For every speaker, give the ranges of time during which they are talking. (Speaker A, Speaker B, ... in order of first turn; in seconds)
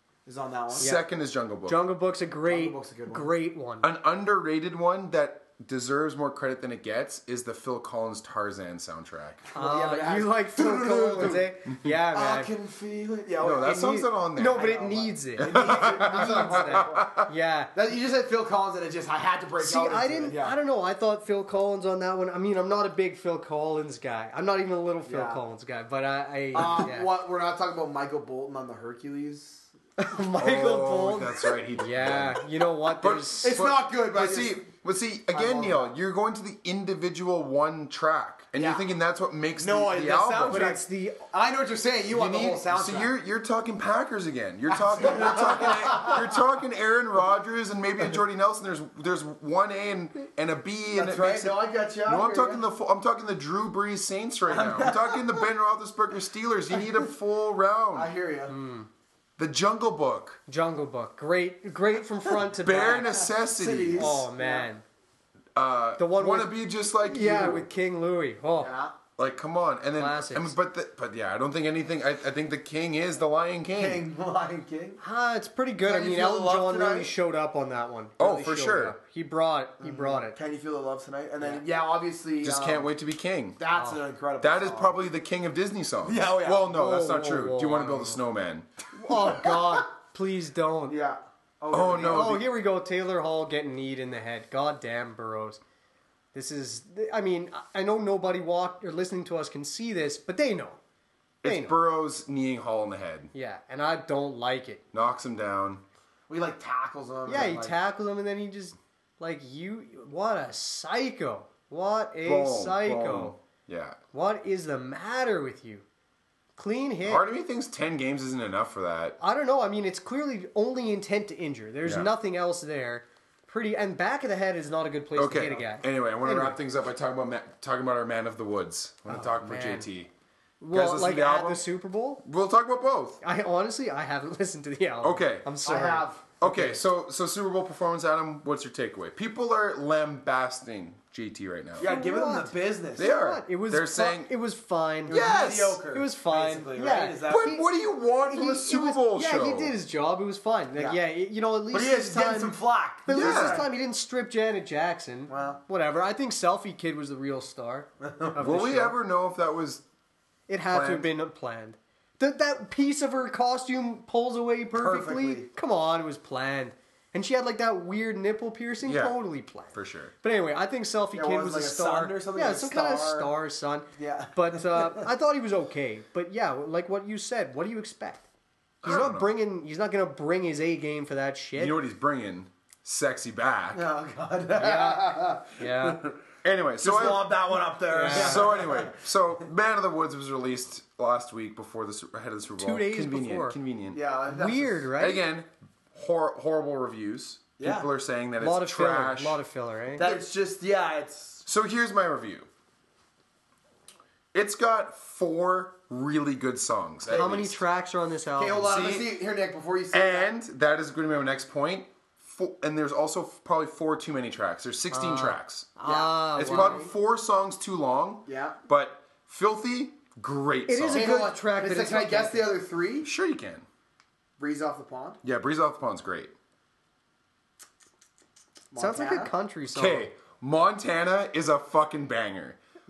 Speaker A: 0.3-0.9, 2.5-3.3, 9.5-11.5, 12.1-17.1, 17.7-20.6, 25.1-25.4, 26.5-29.7, 33.4-34.6, 35.3-35.9, 38.5-38.9, 39.6-43.1, 44.8-46.2, 51.0-52.6, 54.5-55.5, 57.9-58.5, 63.0-64.7, 68.6-69.0, 73.7-75.0, 75.8-77.1, 79.8-82.9, 83.6-85.0, 86.0-86.7, 90.9-92.4, 106.3-107.8, 135.7-136.3, 141.8-143.1, 145.1-147.6, 151.7-153.7, 155.3-155.6, 158.0-158.4, 164.8-165.5, 171.1-173.3, 174.0-175.1, 183.7-186.2, 186.8-189.0, 193.9-194.9, 197.6-197.9, 200.0-201.4, 207.1-207.4, 208.4-210.3, 215.8-216.8, 218.3-218.6, 220.9-223.1, 224.4-225.2, 228.7-229.3
Speaker B: 0.7-1.8, 3.8-9.4, 13.4-14.7, 15.4-17.3, 30.4-32.4, 33.0-40.7, 42.1-58.1, 59.4-60.4, 62.6-64.2, 65.5-67.7, 69.2-74.0, 78.2-79.0, 82.4-83.6, 84.4-88.7, 91.7-92.4, 101.4-103.3, 104.9-105.8, 112.2-114.0, 117.1-119.2, 125.2-130.1, 130.7-131.7, 132.2-133.2, 135.0-135.5, 136.4-141.9, 143.0-144.3, 145.1-145.8, 147.3-149.8, 153.1-153.7, 158.4-159.8, 160.7-161.1, 168.8-169.2, 169.7-170.1, 178.8-179.3, 181.6-183.8, 186.4-187.3, 188.1-194.0, 195.0-199.4, 201.5-202.5, 204.3-207.6, 208.6-209.1, 209.9-215.8, 216.4-221.1, 223.0-223.7, 225.2-226.3, 229.7-232.6
Speaker C: 0.8-1.1, 1.6-3.9, 9.6-12.5, 13.6-17.7, 19.6-27.1, 30.0-33.7, 40.5-41.2, 58.5-58.9, 60.5-63.2, 64.0-64.8, 66.0-68.7, 70.0-70.5, 75.0-80.4, 83.7-84.0, 86.7-88.2, 88.9-91.0, 92.0-95.6, 96.3-100.8, 101.4-101.8, 103.3-104.8, 107.3-113.3, 114.1-115.8, 116.6-117.3, 119.2-126.6, 129.1-129.9, 130.6-132.2, 133.2-136.8, 141.8-145.2, 145.8-147.7, 148.2-152.6, 153.1-158.9, 160.5-178.3, 178.8-181.8, 184.6-186.0, 187.9-188.5, 192.6-193.6, 194.3-195.2, 198.4-200.2, 207.1-208.7, 214.9-216.9, 220.7-222.5, 228.8-230.1